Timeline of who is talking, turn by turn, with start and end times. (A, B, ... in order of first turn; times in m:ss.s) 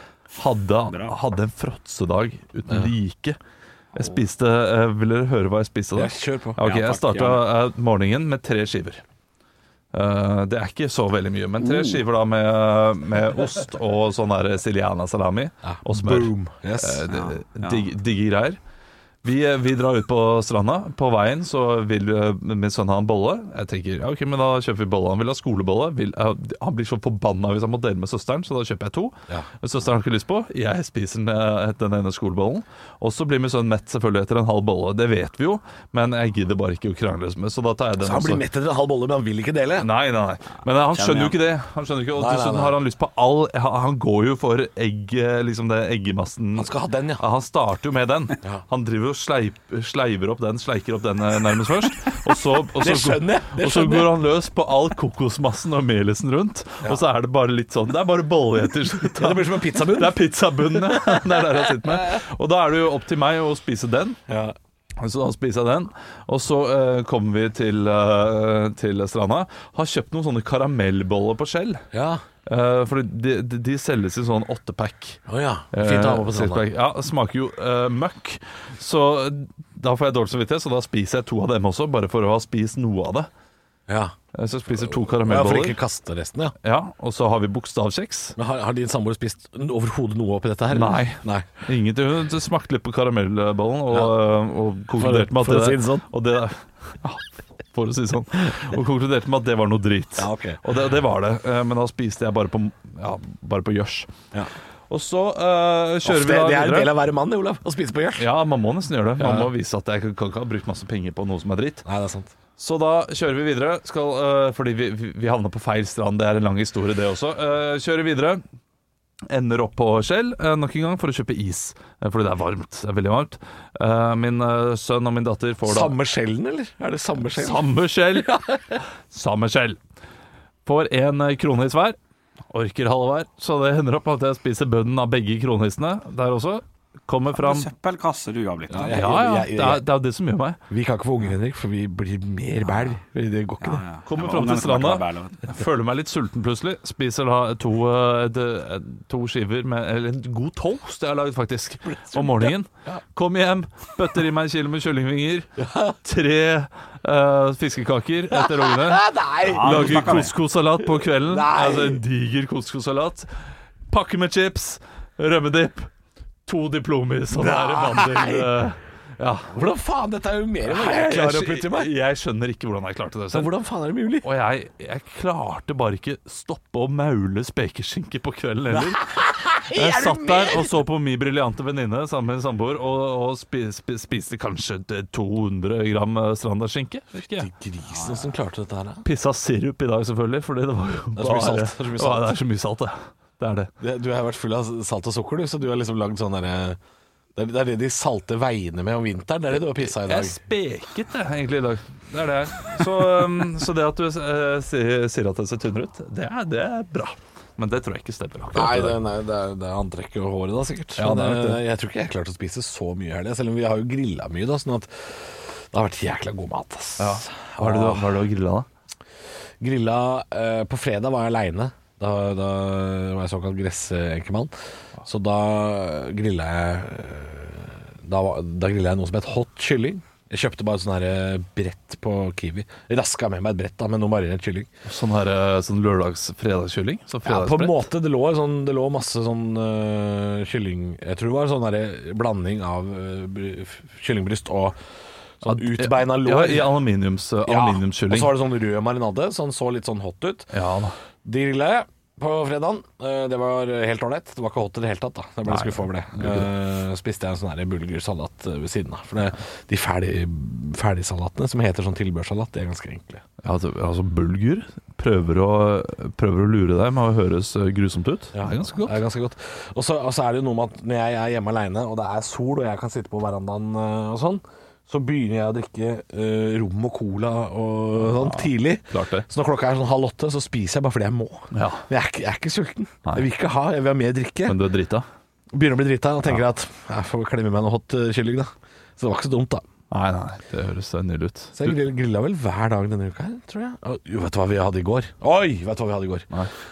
0:00.3-0:03.4 A
0:00.9-0:01.2 B
0:03.9-0:09.0 A
0:05.9-0:06.6 C
0:06.6-0:07.4 B
0:09.9-0:18.6 A
0:11.6-0:12.0 B
0:15.6-0:17.0 C
0:17.1-0:17.8 B
0:19.2-0:38.4 A
0:38.0-0:39.9 C
0:39.8-1:04.2 A
0:40.9-0:41.4 B
0:42.2-0:42.8 C
0:46.6-0:47.2 C
0:52.8-0:54.2 C
0:59.0-1:01.7 C
1:04.3-1:04.5 C
1:05.0-1:11.8 A
1:11.9-1:12.2 C
1:12.4-1:15.2 A
1:15.3-1:16.6 C
1:15.7-1:23.3 A
1:23.9-1:24.1 C
1:24.3-1:25.8 A
1:24.8-1:26.5 C
1:26.6-1:28.4 A
1:28.4-1:31.5 C
1:30.7-1:44.1 A
1:33.9-1:34.2 C
1:35.0-1:36.1 C
1:40.2-1:40.6 C
1:44.9-1:46.9 A
1:46.0-1:48.3 C
1:48.2-1:51.8 A
1:49.2-1:49.5 C
1:51.8-1:52.3 C
1:52.6-1:58.4 A
1:59.3-2:05.9 A
2:05.6-2:08.8 C
2:07.2-2:09.8 A
2:10.6-2:12.0 A
2:12.5-2:17.7 A
2:17.3-2:19.0 B
2:18.7-2:19.8 C
2:18.8-2:20.6 A
2:20.7-2:23.8 C
2:23.6-2:25.5 B
2:24.0-2:43.3 A
2:32.1-2:33.0 C
2:35.6-2:36.0 C
2:38.3-2:42.0 C
2:39.5-2:40.3 B
2:43.9-2:45.9 A
2:46.4-2:49.6 A
2:47.3-2:48.6 C
2:49.5-2:51.9 C
2:50.6-2:53.5 A
2:53.3-2:54.3 C
2:54.2-2:59.1 A
2:58.7-3:00.8 C
2:59.7-3:07.5 A
3:07.3-3:09.0 C
3:08.0-3:08.2 B
3:09.0-3:13.7 A
3:11.2-3:12.3 C
3:13.8-3:16.8 C
3:17.4-3:20.4 C
3:19.8-3:29.0 A
3:28.5-3:38.2 C
3:31.0-3:31.6 A
3:37.0-3:38.7 A
3:39.6-3:54.7 C
3:54.8-3:57.9 A
3:57.2-4:04.8 C
4:05.4-4:06.8 C
4:05.4-4:08.4 A
4:07.4-4:10.5 C
4:10.5-4:11.0 A
4:11.2-4:23.2 C
4:15.5-4:16.5 A
4:23.4-4:29.0 A
4:28.3-4:44.6 C
4:38.0-4:39.2 A
4:41.5-4:41.9 A
4:44.5-4:45.1 A
4:45.5-4:49.6 C
4:49.9-4:51.8 A
4:51.5-4:56.3 C